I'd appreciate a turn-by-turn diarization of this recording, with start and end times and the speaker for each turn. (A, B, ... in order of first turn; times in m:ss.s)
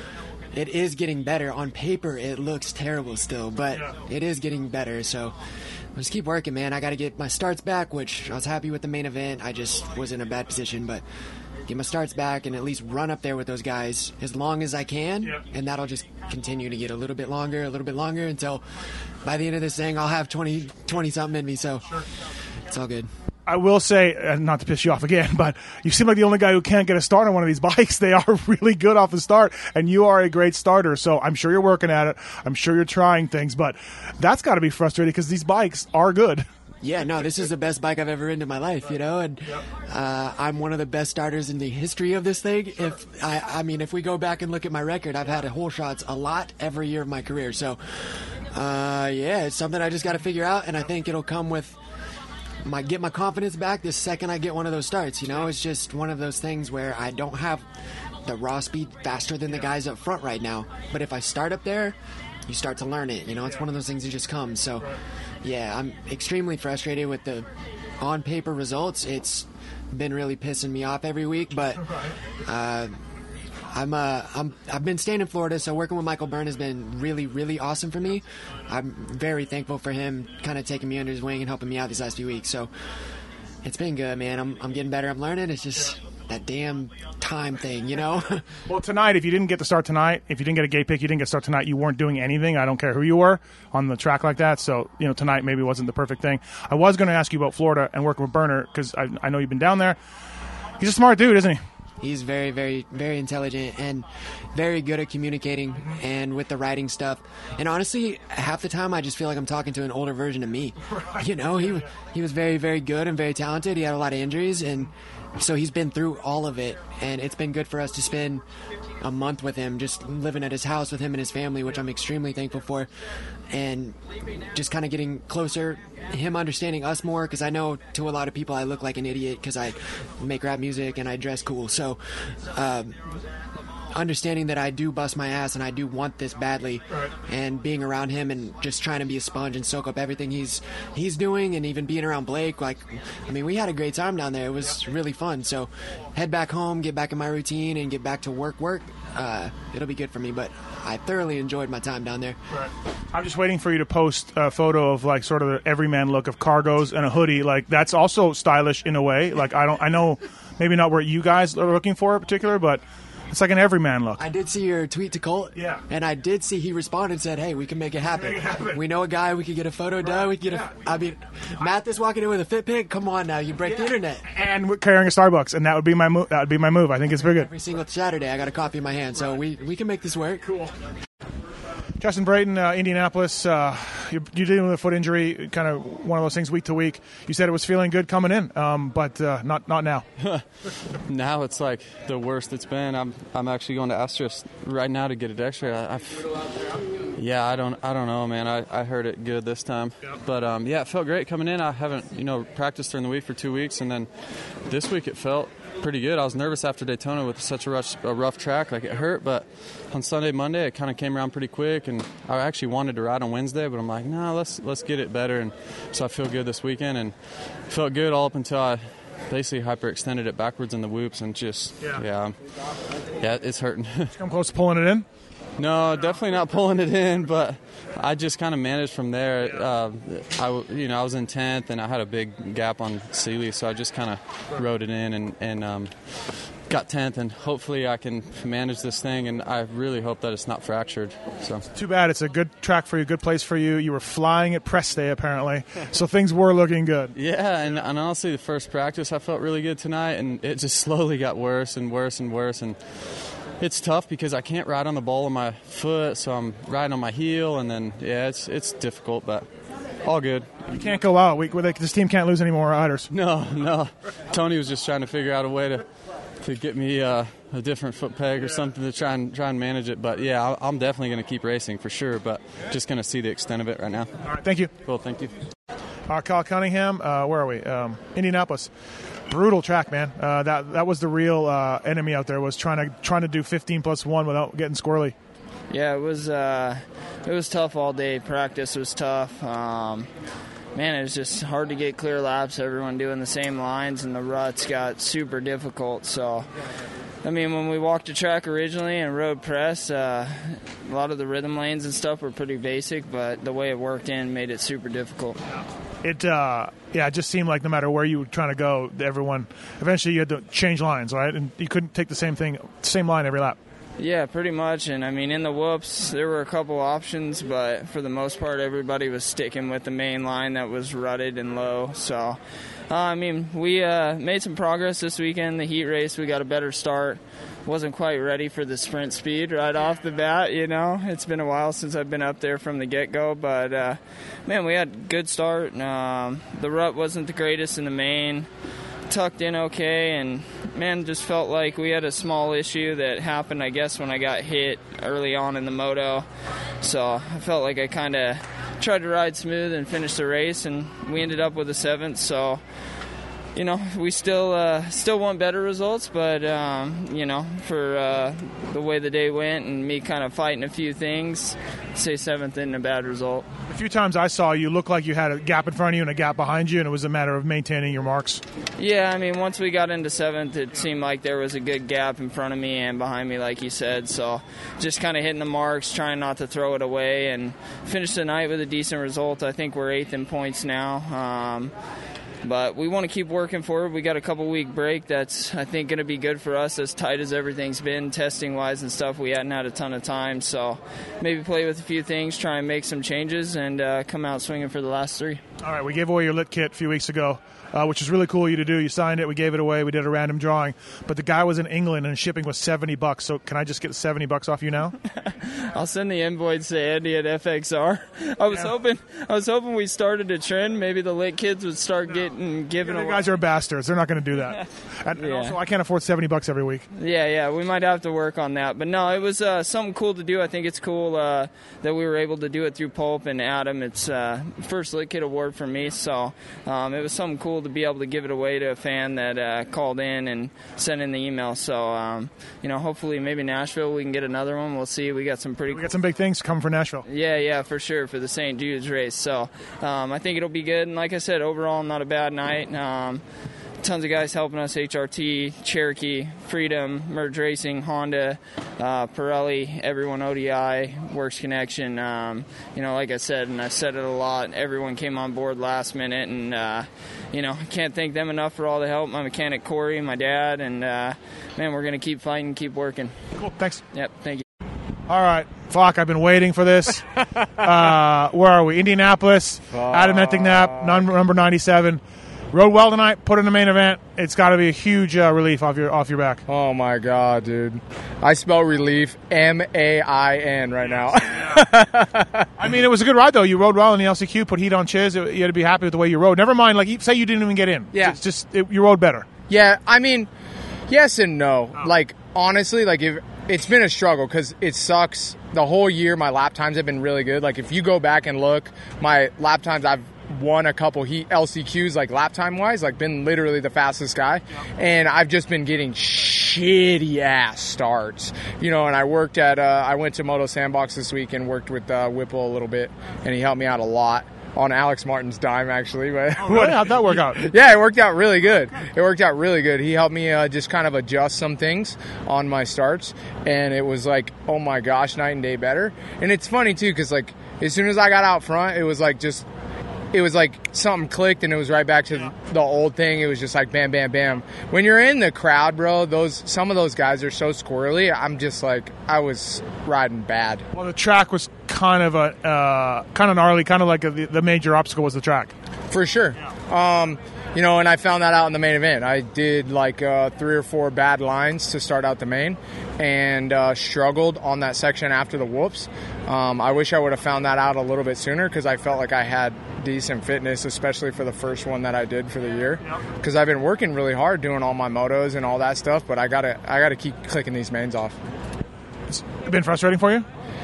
0:00.5-0:05.4 A
0:05.9-0:11.0 A
0:11.6-0:18.6 A
0:19.2-0:22.1 A
0:22.6-0:23.1 A
0:23.5-0:36.5 B
0:36.8-0:51.8 A
0:52.6-0:57.7 A
0:58.2-1:02.0 A
1:02.5-1:07.5 A
1:08.0-1:13.0 A
1:13.7-1:22.7 A
1:23.6-1:28.6 A
1:28.6-1:40.0 B
1:40.8-1:41.6 B
1:42.0-1:58.4 A
1:59.0-2:02.9 A
2:03.5-2:04.0 A
2:04.5-2:13.0 A
2:13.9-2:32.4 A
2:32.5-2:44.2 B
2:44.2-2:54.2 A
2:45.6-2:45.8 B
2:48.4-2:48.8 B
2:53.8-2:57.5 B
2:57.1-3:00.7 A
3:02.0-3:10.0 B
3:10.2-3:16.5 C
3:17.1-3:42.4 C
3:43.2-3:44.2 C
3:44.2-3:45.0 B
3:45.6-4:01.7 C
4:01.7-4:07.1 B
4:07.1-4:19.5 C
4:20.0-4:20.9 C
4:20.7-4:23.1 B
4:23.1-4:25.9 C
4:26.4-4:34.3 C
4:34.3-4:34.7 B
4:34.8-4:35.4 C
4:36.1-4:38.7 B
4:39.3-4:45.1 B
4:45.7-4:50.1 D
4:50.7-4:56.5 D
4:57.2-5:05.4 D
5:06.0-5:13.6 B
5:14.0-5:22.4 D
5:22.9-5:38.5 D
5:39.1-5:46.2 D
5:46.8-5:52.6 D
5:53.5-6:03.5 D
6:03.7-6:08.4 B
6:08.8-6:21.7 D
6:22.4-6:35.4 D
6:35.6-6:44.9 B
6:45.4-6:53.2 D
6:52.8-6:56.8 B
6:55.2-6:55.6 D
6:56.9-7:15.9 D
7:15.7-7:17.0 B
7:17.1-7:23.2 D
7:23.8-7:43.2 D
7:43.4-7:43.8 B
7:43.9-7:44.4 D
7:45.1-7:47.0 B
7:47.6-7:56.4 B
7:49.7-7:51.0 E
7:56.5-8:02.5 E
8:02.6-8:09.2 B
8:07.9-8:08.2 E
8:09.5-8:10.3 E
8:10.9-8:49.4 E
8:36.4-8:37.4 B
8:50.1-9:00.6 E
9:00.7-9:05.5 B
9:05.9-9:28.2 E
9:29.1-9:30.2 B